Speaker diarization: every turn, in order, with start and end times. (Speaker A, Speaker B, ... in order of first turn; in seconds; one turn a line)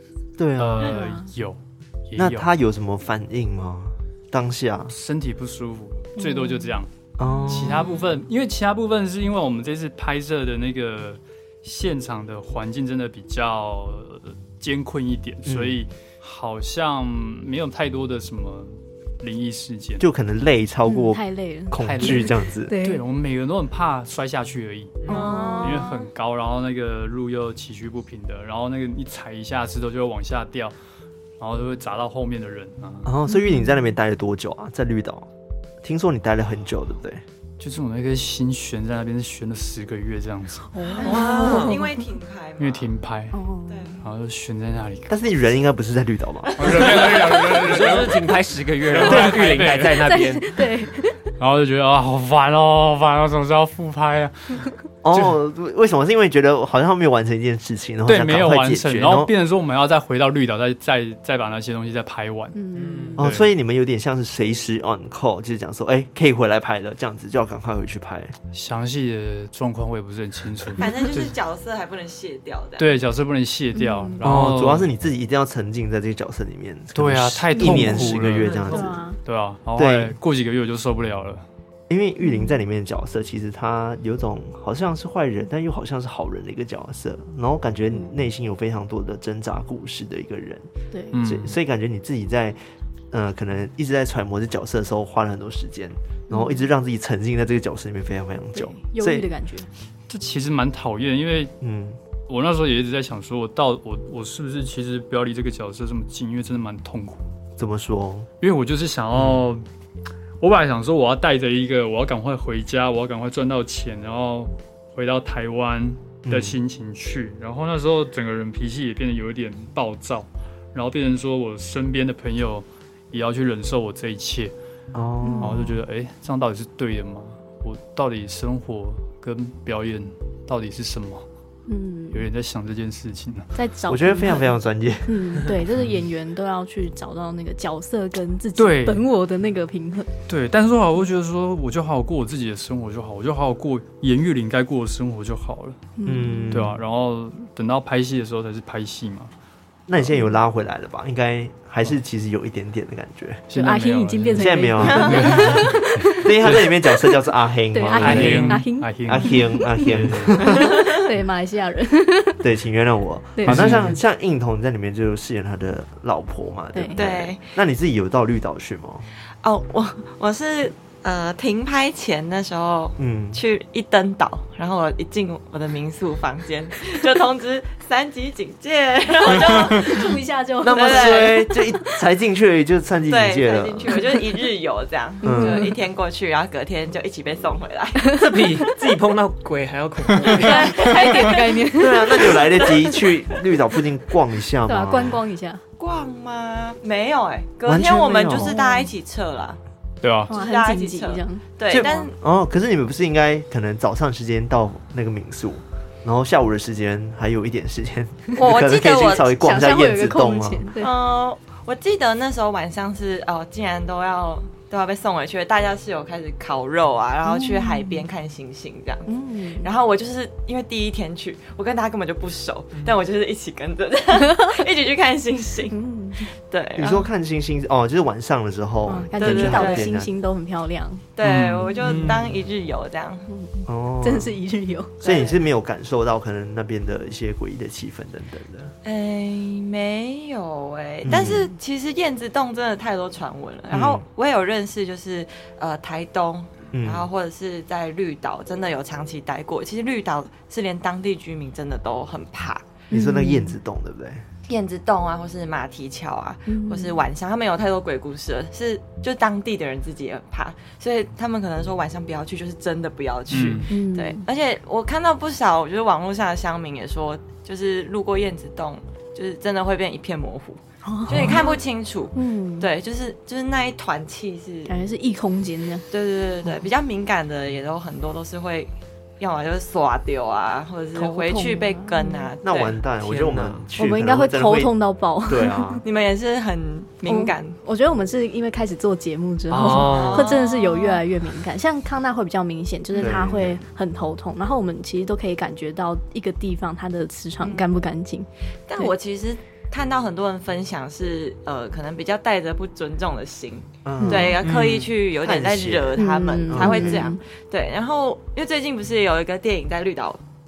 Speaker A: 0.4-1.0
Speaker B: 0.6-2.5
Speaker C: 0.8-1.3
Speaker A: 2.1-4.9
Speaker B: 4.9-6.9
Speaker C: 6.2-6.8
Speaker A: 7.2-8.0
Speaker C: 7.3-7.7
Speaker B: 7.5-20.0
Speaker A: 15.4-15.8
Speaker A: 20.0-22.7
Speaker C: 20.9-23.0
Speaker B: 21.8-30.7
Speaker D: 25.0-25.3
Speaker C: 25.1-26.0
Speaker E: 25.1-26.0
Speaker B: 31.4-33.1
Speaker A: 33.0-35.3
Speaker C: 33.3-33.9
Speaker A: 35.8-37.2
Speaker B: 37.6-40.9
Speaker C: 40.7-42.0
Speaker D: 41.0-41.8
Speaker E: 41.0-42.9
Speaker B: 42.6-43.4
Speaker C: 43.3-44.0
Speaker E: 43.7-44.0
Speaker B: 44.0-45.1
Speaker A: 45.1-47.3
Speaker B: 46.6-48.3
Speaker D: 47.5-50.6
Speaker B: 48.9-50.1
Speaker A: 49.0-49.4
Speaker C: 50.0-51.2
Speaker B: 51.4-55.3
Speaker A: 55.0-59.3
Speaker B: 58.0-62.6
Speaker C: 62.5-63.2
Speaker D: 62.7-63.2
Speaker B: 63.2-63.5
Speaker A: 63.2-68.3
Speaker B: 68.5-71.3
Speaker E: 70.8-72.9
Speaker B: 72.8-74.9
Speaker C: 73.7-74.2
Speaker A: 74.2-79.0
Speaker B: 76.9-81.4
Speaker C: 77.6-78.0
Speaker D: 78.4-78.8
Speaker C: 78.7-79.2
Speaker A: 79.8-80.2
Speaker A: 81.9-92.6
Speaker C: 82.2-82.6
Speaker B: 91.1-91.6
Speaker A: 93.1-99.3
Speaker C: 96.3-96.6
Speaker C: 98.5-99.7
Speaker B: 100.1-101.5
Speaker A: 101.6-102.0
Speaker B: 102.3-107.2
Speaker A: 107.6-108.3
Speaker B: 108.4-109.6
Speaker A: 109.2-109.4
Speaker B: 110.4-124.5
Speaker A: 116.2-116.6
Speaker A: 124.9-125.7
Speaker C: 125.2-125.7
Speaker B: 125.4-131.2
Speaker C: 131.7-132.2
Speaker B: 132.1-133.5
Speaker C: 133.5-134.5
Speaker A: 133.9-135.4
Speaker C: 135.1-140.1
Speaker B: 138.6-139.1
Speaker B: 140.3-145.8
Speaker C: 146.0-146.7
Speaker A: 146.0-146.8
Speaker B: 146.5-149.3
Speaker A: 149.9-153.4
Speaker B: 153.5-156.7
Speaker C: 153.5-156.3
Speaker A: 154.3-160.8
Speaker E: 154.9-155.6
Speaker C: 157.7-162.4
Speaker B: 157.9-160.4
Speaker D: 158.0-158.5
Speaker E: 160.5-161.0
Speaker A: 162.4-169.1
Speaker C: 163.3-163.7
Speaker B: 163.4-164.0
Speaker C: 166.7-167.0
Speaker E: 166.9-167.4
Speaker E: 169.4-181.5
Speaker A: 173.0-173.4
Speaker C: 179.3-181.8
Speaker A: 180.6-184.0
Speaker E: 183.1-188.1
Speaker C: 185.2-185.8
Speaker A: 185.2-185.7
Speaker C: 188.0-188.8
Speaker D: 188.1-190.8
Speaker C: 190.3-192.7
Speaker E: 190.4-193.2
Speaker A: 191.7-195.2
Speaker C: 194.7-195.6
Speaker E: 195.8-199.6
Speaker A: 197.6-198.6
Speaker C: 198.3-198.9
Speaker B: 200.0-200.3
Speaker C: 200.3-202.1
Speaker E: 200.3-202.1
Speaker A: 201.7-210.7
Speaker E: 208.3-209.3
Speaker C: 209.2-210.9
Speaker E: 210.8-225.8
Speaker C: 217.2-218.0
Speaker C: 219.1-219.7
Speaker C: 224.3-224.6
Speaker C: 225.7-226.3
Speaker E: 226.3-227.1
Speaker A: 226.8-230.1
Speaker C: 228.8-231.0
Speaker E: 229.2-229.9
Speaker E: 231.2-233.3
Speaker D: 231.2-232.3
Speaker B: 231.3-232.2
Speaker C: 233.3-235.0
Speaker A: 233.7-234.4
Speaker A: 235.0-238.7
Speaker E: 235.0-235.4
Speaker E: 238.8-252.7
Speaker A: 241.1-241.5
Speaker A: 243.7-244.0
Speaker A: 246.7-247.1
Speaker C: 252.9-253.6
Speaker A: 252.9-254.2
Speaker E: 254.5-274.8
Speaker C: 256.5-257.0
Speaker B: 263.3-263.7
Speaker C: 263.7-264.2
Speaker C: 270.8-271.6
Speaker C: 272.1-272.7
Speaker C: 274.7-275.9
Speaker E: 275.9-282.8
Speaker C: 280.9-282.3
Speaker A: 282.4-285.8
Speaker D: 283.0-283.6
Speaker C: 283.8-285.8
Speaker E: 285.8-287.6
Speaker C: 287.1-298.9
Speaker D: 289.5-290.3
Speaker E: 289.6-291.0
Speaker A: 293.0-293.6
Speaker E: 297.4-297.7
Speaker E: 298.7-310.2
Speaker A: 303.8-304.4
Speaker C: 304.0-304.4
Speaker D: 304.4-304.9
Speaker A: 305.2-307.1
Speaker C: 305.9-307.2